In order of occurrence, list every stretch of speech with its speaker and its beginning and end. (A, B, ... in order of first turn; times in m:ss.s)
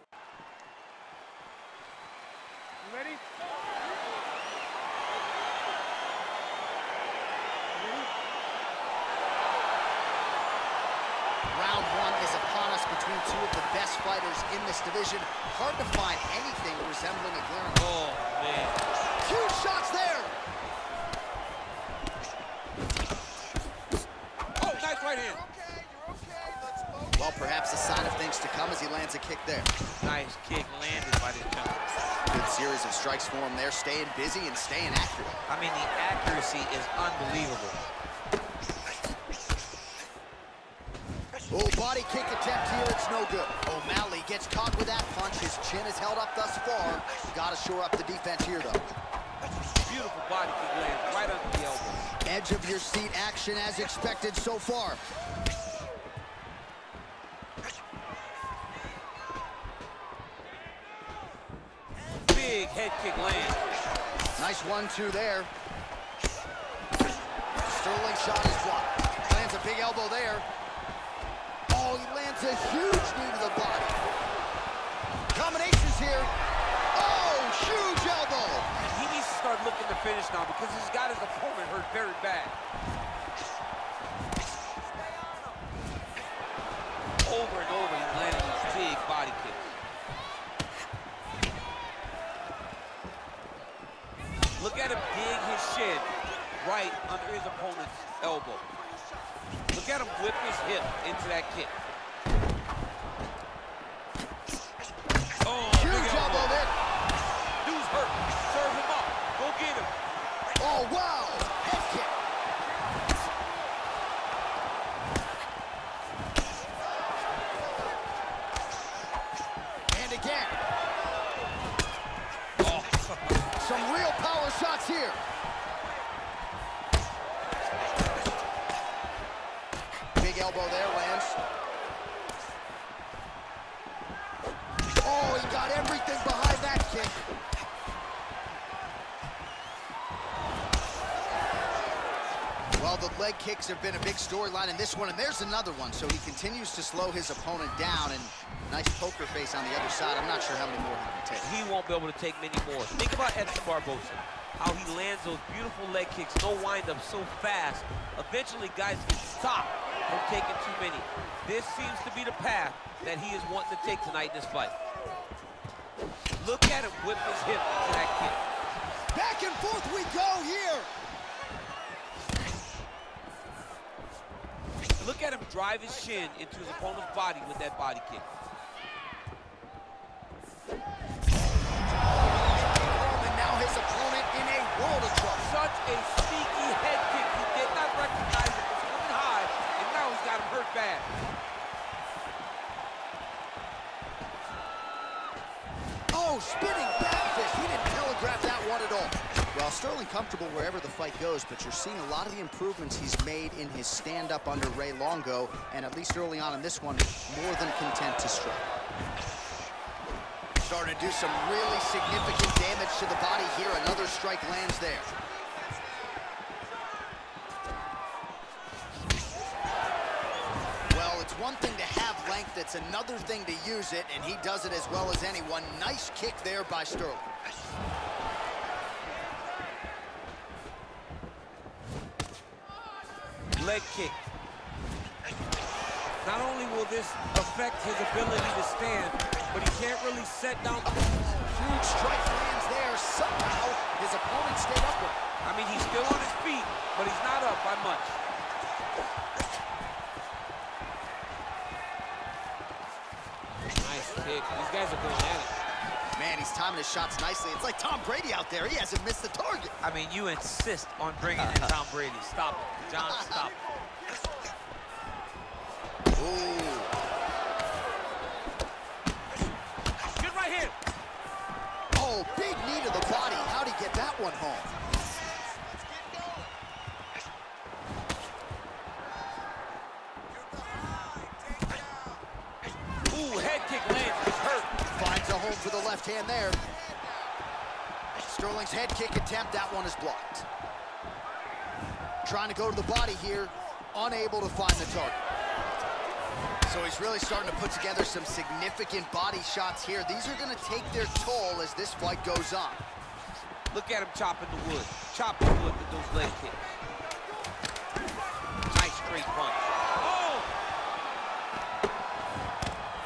0:11.5-0:18.0 A
0:17.7-0:18.8 B
0:19.2-0:20.3 A
0:24.6-0:25.5 B
0:27.1-0:29.7 A
0:30.0-0:31.9 B
0:32.3-0:35.4 A
0:35.5-0:37.8 B
0:41.5-0:48.9 A
0:49.8-0:52.1 B
0:52.2-0:55.0 A
1:02.3-1:03.6 B
1:04.4-1:05.5 A
1:07.6-1:10.4 A
1:11.7-1:14.0 A
1:15.3-1:16.3 A
1:16.9-1:18.7 A
1:18.7-1:22.6 B
1:27.2-1:29.7 B
1:34.6-1:38.7 B
1:39.7-1:41.7 B
1:45.4-1:46.6 B
1:45.7-1:46.7 A
1:47.6-1:49.9 B
1:50.6-1:52.2 A
1:59.9-2:00.6 A
2:02.6-2:03.5 B
2:03.5-2:05.2 A
2:10.2-2:11.4 A
2:15.0-2:17.3 A
2:22.8-2:31.5 A
2:31.4-2:44.7 B
2:46.4-2:48.4 B
2:49.1-2:50.9 A
2:55.0-2:58.2 B
3:02.5-3:05.5 A
3:05.3-3:11.1 B
3:16.1-3:28.6 A
3:30.6-3:35.1 A
3:40.9-3:47.3 A
3:53.6-3:54.2 B
3:56.2-4:01.1 B
4:01.3-4:05.2 A
4:05.4-4:08.2 B
4:13.8-4:15.6 B
4:16.1-4:19.7 A
4:19.8-4:23.5 B
4:21.4-4:21.7 A
4:23.0-4:23.5 A
4:26.2-4:26.9 A
4:30.0-4:30.7 B
4:31.9-4:34.7 A
4:43.1-4:44.8 B
4:44.8-4:46.6 A
4:48.2-4:50.5 A
4:52.2-4:55.2 A
4:56.7-5:02.8 A
5:03.7-5:06.8 B
5:08.7-5:10.5 B